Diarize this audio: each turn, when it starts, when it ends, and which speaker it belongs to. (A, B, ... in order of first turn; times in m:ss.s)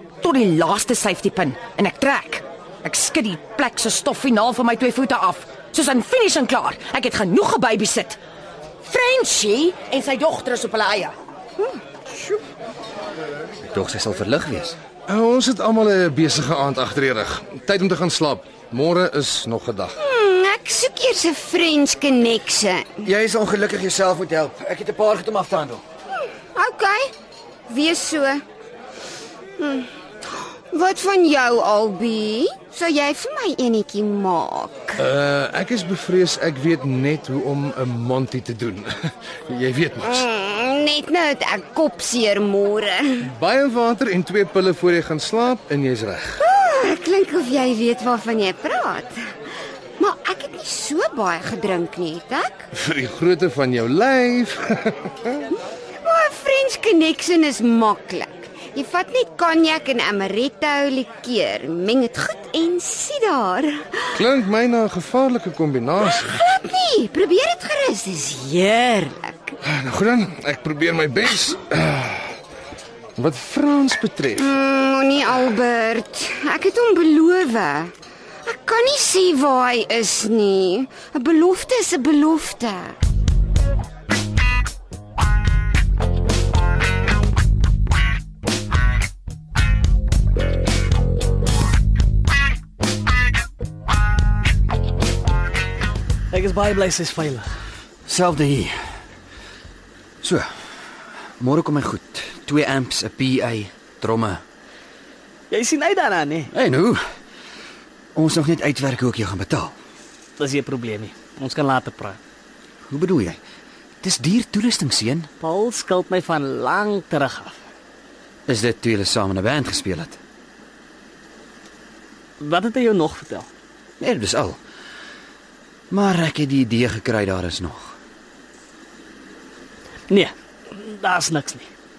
0:00.2-0:08.2 A
0:08.8-0:11.2 A
0:11.6-0:12.4 B
0:13.6-0:14.8 C
0:15.1-0:20.0 D
0:20.0-0:23.0 B
0:23.0-0:25.8 C
0:26.6-0:27.1 B
0:27.7-0:28.4 B
0:29.6-0:35.0 B
0:35.0-0:40.3 D
0:40.0-0:43.3 B
0:43.2-0:46.4 D
0:46.4-0:49.2 B
0:50.0-0:52.7 B
0:52.7-0:55.4 D
0:56.0-1:04.2 B
1:04.2-1:06.4 D
1:06.0-1:09.5 B
1:09.6-1:12.4 D
1:13.2-1:14.5 D
1:14.4-1:17.9 B
1:18.5-1:23.0 B
1:36.3-1:37.5 E
1:38.1-1:38.8 C
1:40.2-1:40.5 C
1:41.4-1:44.4 C
1:45.5-1:46.5 E
1:46.5-1:47.0 C
1:48.2-1:49.8 C
1:50.4-1:52.2 E
1:52.9-1:53.4 C
1:54.0-1:55.3 C
1:55.4-1:57.6 E
1:58.5-2:00.2 C
2:02.4-2:03.5 E
2:04.0-2:04.6 C
2:05.9-2:08.0 C
2:10.1-2:11.7 E